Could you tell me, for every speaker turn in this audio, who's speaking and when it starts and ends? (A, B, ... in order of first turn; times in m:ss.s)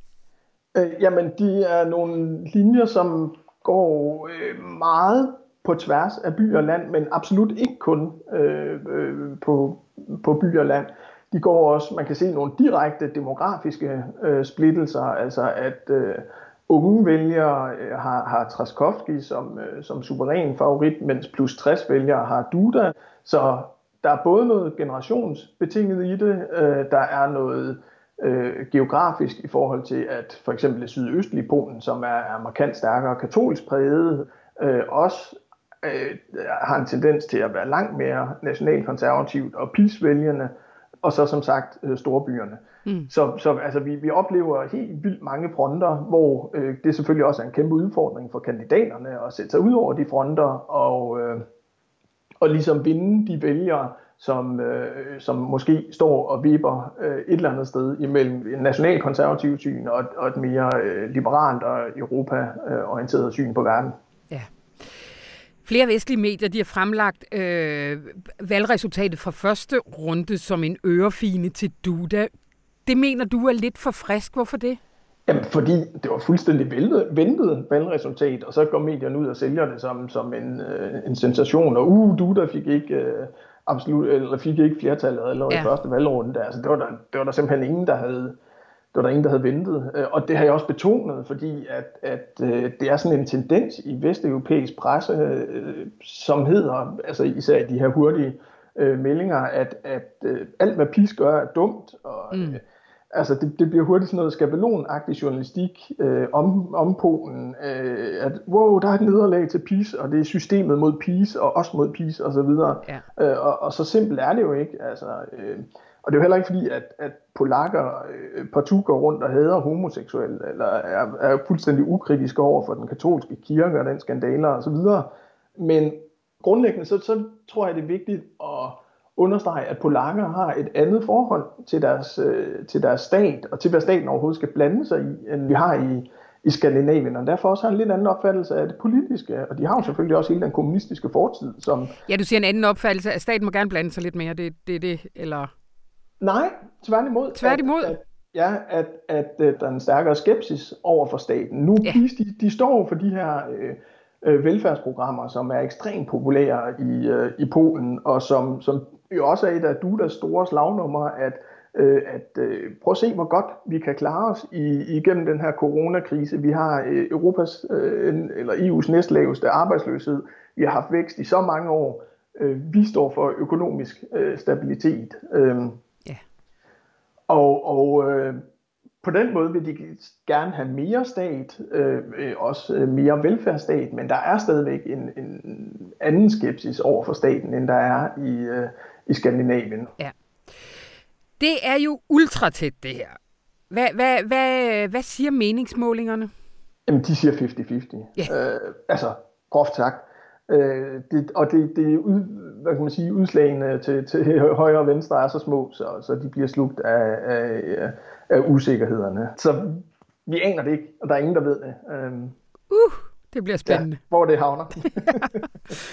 0:00.7-0:40.5 A
0:41.0-0:51.4 A
0:52.4-1:04.0 A
1:04.3-1:05.1 B
1:05.6-1:12.3 B
1:12.9-1:14.8 B
1:15.3-1:28.4 A
1:25.5-1:25.8 B
1:28.9-1:42.6 A
1:42.3-1:42.6 B
1:43.1-2:22.0 A
2:22.1-2:25.5 B
2:26.2-2:55.8 A
2:27.4-2:28.0 B
2:57.3-2:58.4 A
2:59.0-3:09.9 A
3:10.0-3:10.8 B
3:11.4-3:13.2 B
3:13.7-3:16.3 B
3:16.9-3:32.4 A
3:32.7-3:34.0 B
3:33.7-3:35.4 A
3:34.8-3:35.3 B